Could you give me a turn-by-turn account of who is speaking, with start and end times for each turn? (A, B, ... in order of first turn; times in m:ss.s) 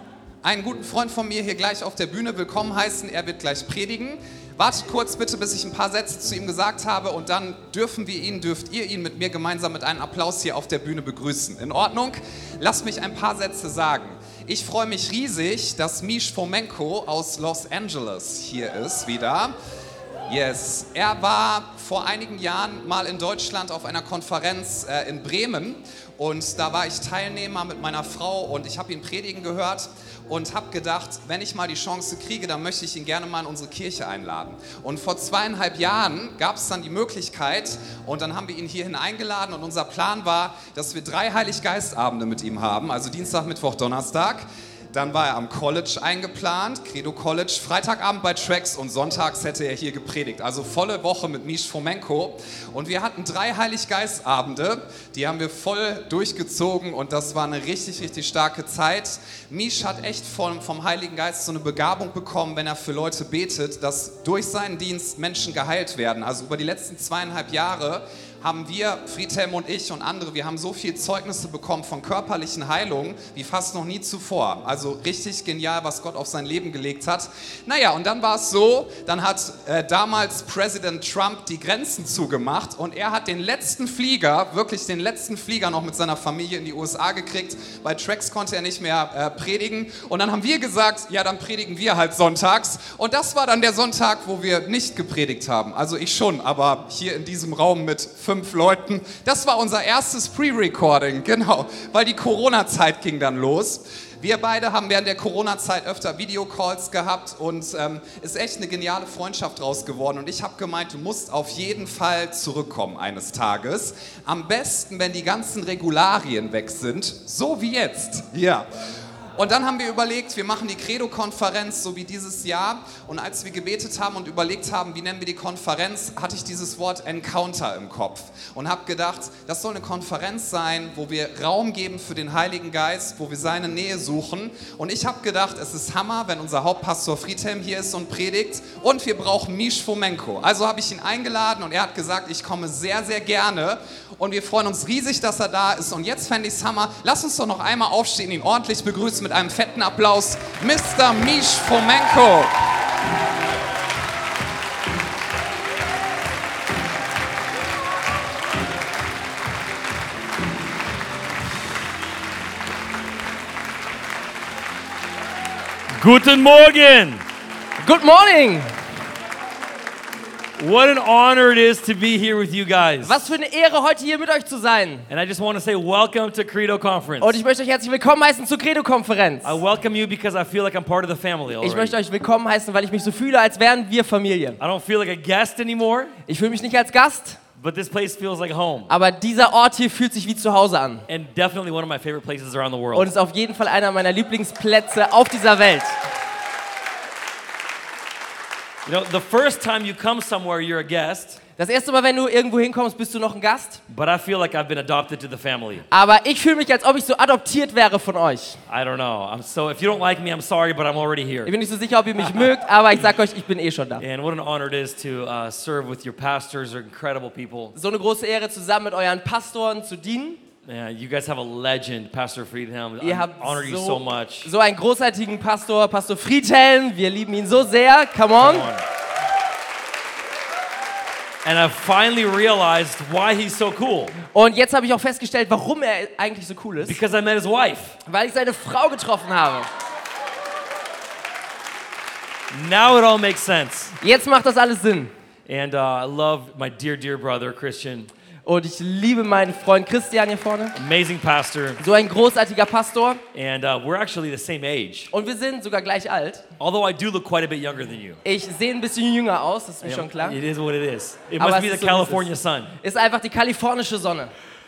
0:00.4-0:19.5 A
0:20.3-1:58.7 A
1:59.4-2:32.6 A
2:46.0-2:47.2 B
2:47.8-2:48.7 C
2:50.6-2:53.2 B
2:53.0-2:55.1 C
2:55.1-2:57.4 B
2:57.2-2:59.6 C
2:59.4-3:02.0 B
3:01.6-3:04.6 C
3:04.6-3:06.1 B
3:06.3-3:07.4 C
3:07.6-3:08.9 B
3:08.9-3:11.0 C
3:11.1-3:13.1 B
3:12.9-3:16.0 C
3:18.8-3:21.4 B
3:21.6-3:23.8 C
3:23.9-3:25.8 B
3:25.9-3:28.6 C
3:28.7-3:31.5 B
3:31.4-3:34.0 C
3:34.0-3:37.7 B
3:37.7-3:40.4 C
3:40.6-3:44.5 B
3:43.0-3:48.7 C
3:48.4-3:48.8 B
3:51.4-3:54.1 B
3:54.2-3:57.0 C
3:56.8-3:58.0 B
3:58.0-3:59.7 C
4:02.5-4:03.9 B
4:04.0-4:05.1 C
4:05.5-4:08.1 B
4:08.4-4:10.8 C
4:10.8-4:11.8 B
4:11.8-4:13.2 C
4:13.3-4:15.1 B
4:15.1-4:16.4 C
4:16.6-4:18.2 B
4:18.2-4:20.4 C
4:19.8-4:22.7 B
4:21.4-4:24.3 C